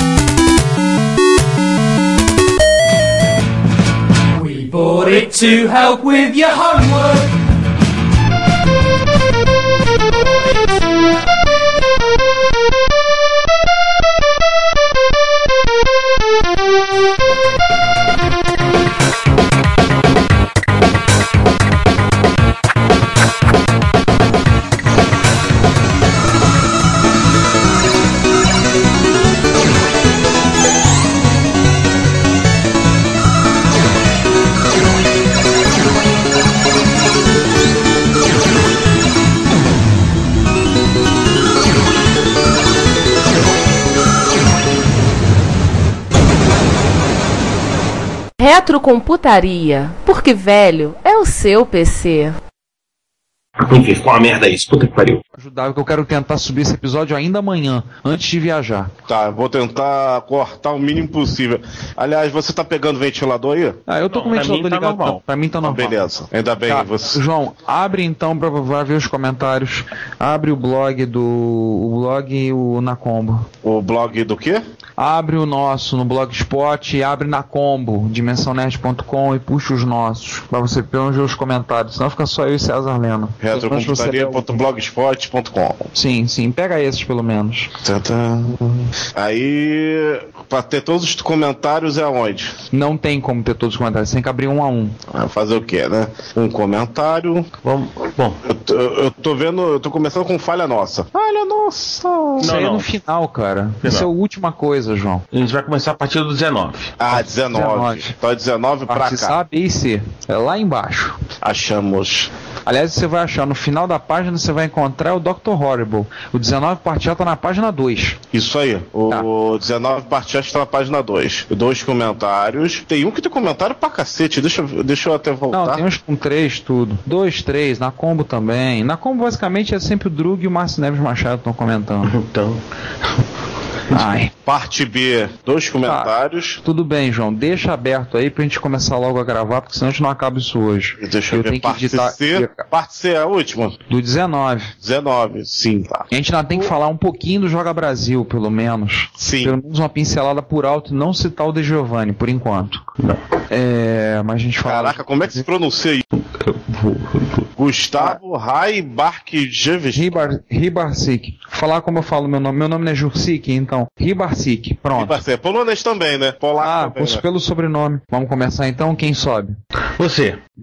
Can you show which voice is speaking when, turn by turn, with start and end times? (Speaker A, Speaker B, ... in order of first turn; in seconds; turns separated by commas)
Speaker A: 4.3-7.3, Speaker B: 48.4-52.4, Speaker C: 53.6-55.2, Speaker D: 55.4-58.9, Speaker E: 59.1-63.8, Speaker D: 63.9-66.0, Speaker C: 64.1-65.2, Speaker E: 65.6-67.2, Speaker D: 66.7-73.5, Speaker E: 73.6-74.6, Speaker D: 75.0-84.5, Speaker E: 83.4-85.9, Speaker D: 85.9-87.7, Speaker E: 87.8-92.5, Speaker D: 92.7-94.9, Speaker E: 95.1-97.5, Speaker C: 97.6-98.4, Speaker E: 98.5-102.5, Speaker D: 102.4-105.2, Speaker C: 102.4-102.9, Speaker C: 103.8-104.1, Speaker C: 105.3-106.9, Speaker E: 107.0-109.3, Speaker D: 107.1-108.1, Speaker D: 108.9-111.2, Speaker E: 111.4-112.3, Speaker D: 112.7-118.2, Speaker E: 118.3-125.8, Speaker D: 125.5-132.1, Speaker C: 132.1-132.6, Speaker D: 133.9-134.3, Speaker E: 134.4-136.6, Speaker D: 135.8-142.6, Speaker E: 141.0-143.8, Speaker D: 143.9-144.7, Speaker E: 144.8-146.1, Speaker D: 146.1-152.8, Speaker E: 149.2-149.5, Speaker D: 153.5-155.4, Speaker E: 154.6-156.0, Speaker C: 156.3-157.4, Speaker E: 157.6-160.2, Speaker D: 159.9-165.2, Speaker E: 164.9-167.2, Speaker D: 166.6-169.6, Speaker C: 170.0-170.4